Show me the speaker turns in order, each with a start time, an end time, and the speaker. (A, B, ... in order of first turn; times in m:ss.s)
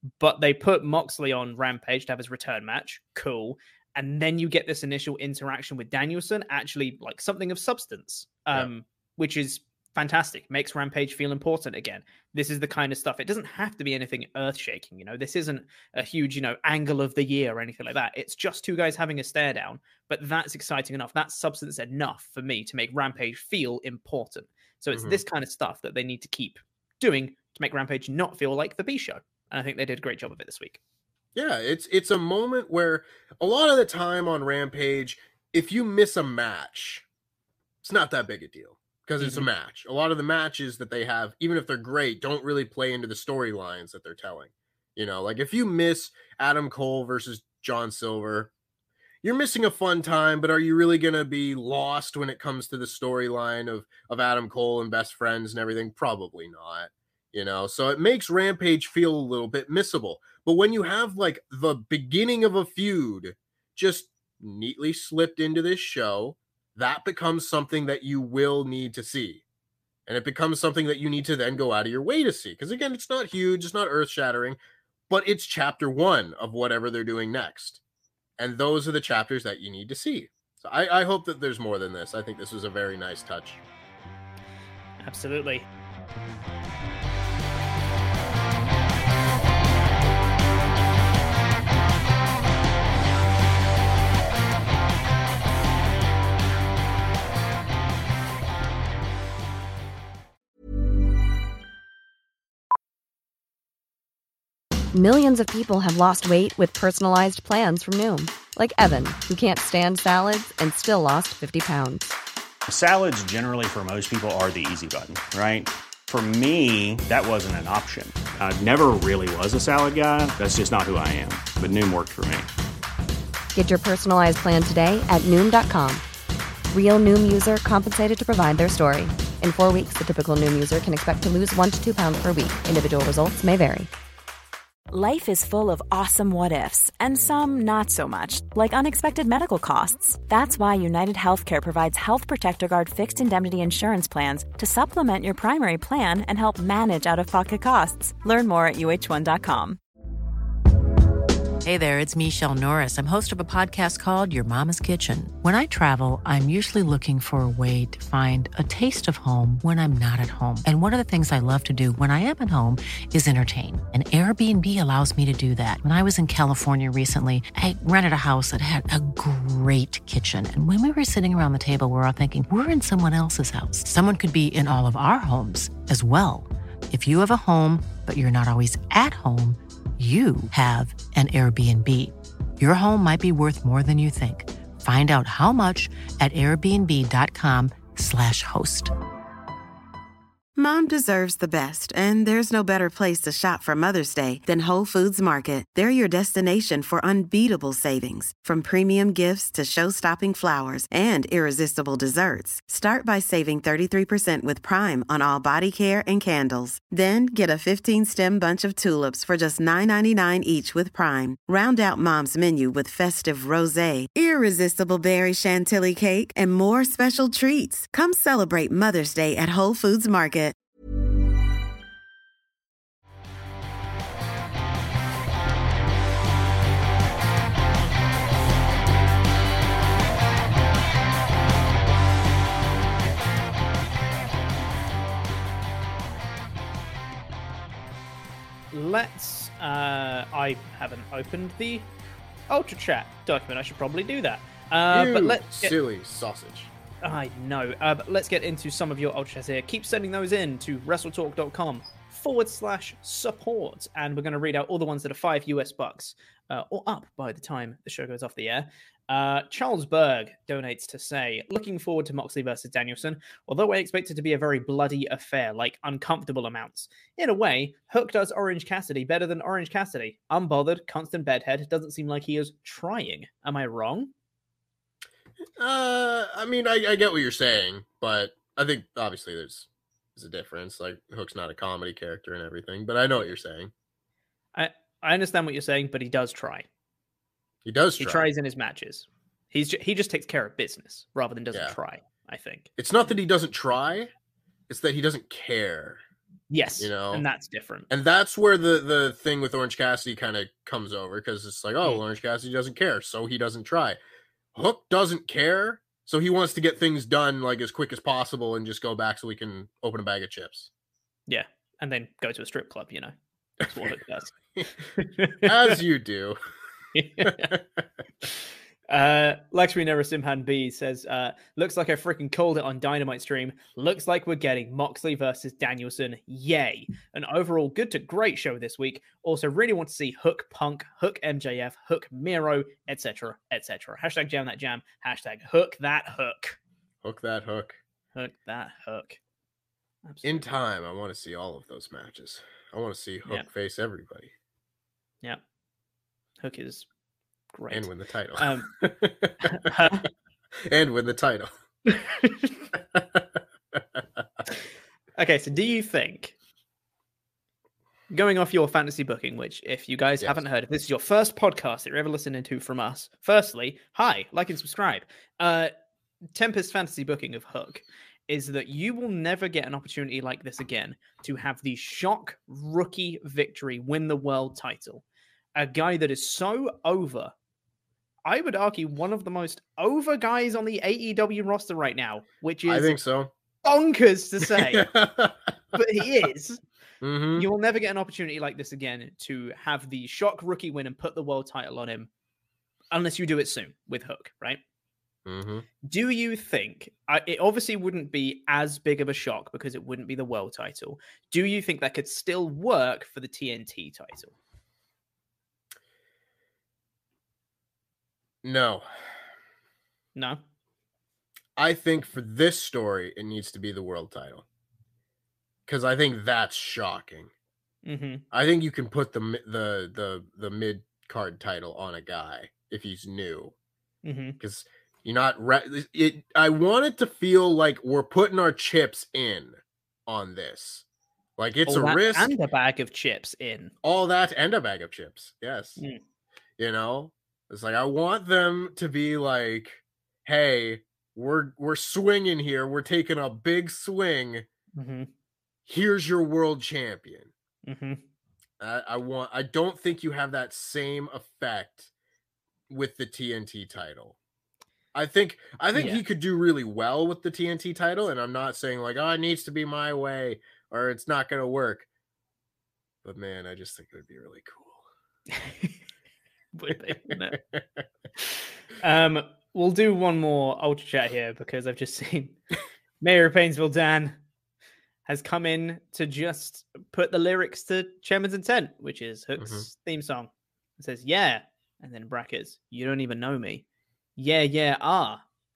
0:00.2-0:30.8 A
0:24.9-0:25.2 B
0:31.3-0:37.0 B
0:37.8-0:48.5 B
0:39.2-0:39.5 A
0:49.2-1:09.4 B
1:10.1-1:14.6 B
1:15.1-1:17.8 B
1:18.4-1:23.6 B
1:25.0-1:25.7 A
1:44.9-1:52.1 C
1:52.7-2:02.5 D
2:03.5-2:06.0 C
2:06.7-2:13.9 C
2:14.9-2:29.8 E
2:31.6-3:08.9 F
3:10.6-3:40.5 G
3:58.7-4:01.9 A
4:02.5-4:05.8 A
4:04.9-4:06.7 B
4:07.0-4:34.1 A
4:35.6-4:43.7 B
4:44.5-4:46.7 A
4:47.6-4:48.3 B
4:48.0-4:52.7 A
4:52.8-4:54.1 B
4:54.7-4:56.0 B
4:56.5-4:57.9 A
4:56.8-4:57.2 B
4:57.9-5:04.0 B
5:04.5-5:10.7 B
5:11.3-5:13.1 A
5:13.6-5:14.3 A
5:13.7-5:13.9 B
5:14.9-5:15.8 A
5:15.4-5:16.4 B
5:16.9-5:17.5 A
5:17.2-5:17.8 B
5:18.2-5:36.6 A
5:37.0-5:37.8 B
5:38.1-5:39.2 A
5:40.0-5:40.4 A
5:40.2-5:44.3 B
5:46.4-5:46.8 A
5:47.5-5:48.7 A
5:47.7-5:50.1 B
5:49.4-5:50.0 A
5:50.6-5:51.5 B
5:51.9-5:52.6 A
5:52.7-5:54.0 B
5:55.2-5:56.3 A
5:58.1-6:05.7 A
6:06.3-6:15.0 A
6:15.6-6:17.3 A
6:18.2-6:23.0 A
6:22.6-6:23.3 B
6:23.6-6:24.9 A
6:24.4-6:25.5 B
6:25.7-6:26.6 A
6:27.0-6:27.5 B
6:27.4-6:32.1 A
6:32.9-6:34.6 A
6:35.2-6:35.6 B
6:35.8-6:44.3 A
6:48.4-6:49.1 B
6:50.2-6:50.4 A
6:51.6-6:54.4 B
6:55.7-6:57.3 B
6:57.8-6:58.2 A
6:58.3-7:03.5 B
7:04.0-7:04.4 A
7:04.4-7:10.8 B
7:11.4-7:12.3 B
7:11.6-7:13.7 A
7:13.8-7:15.8 B
7:16.6-7:24.4 B
7:24.8-7:25.1 A
7:25.6-7:27.3 B
7:27.6-7:28.0 A
7:28.6-7:31.9 B
7:32.7-7:34.2 B
7:34.9-7:41.9 B
7:35.7-7:36.0 A
7:43.0-7:44.9 B
7:45.3-7:45.7 A
7:46.5-7:47.4 A
7:46.7-7:47.8 B
7:48.2-7:52.4 A
7:53.0-7:54.2 A
7:55.0-8:03.6 A
7:59.4-7:59.7 B
8:04.2-8:05.2 A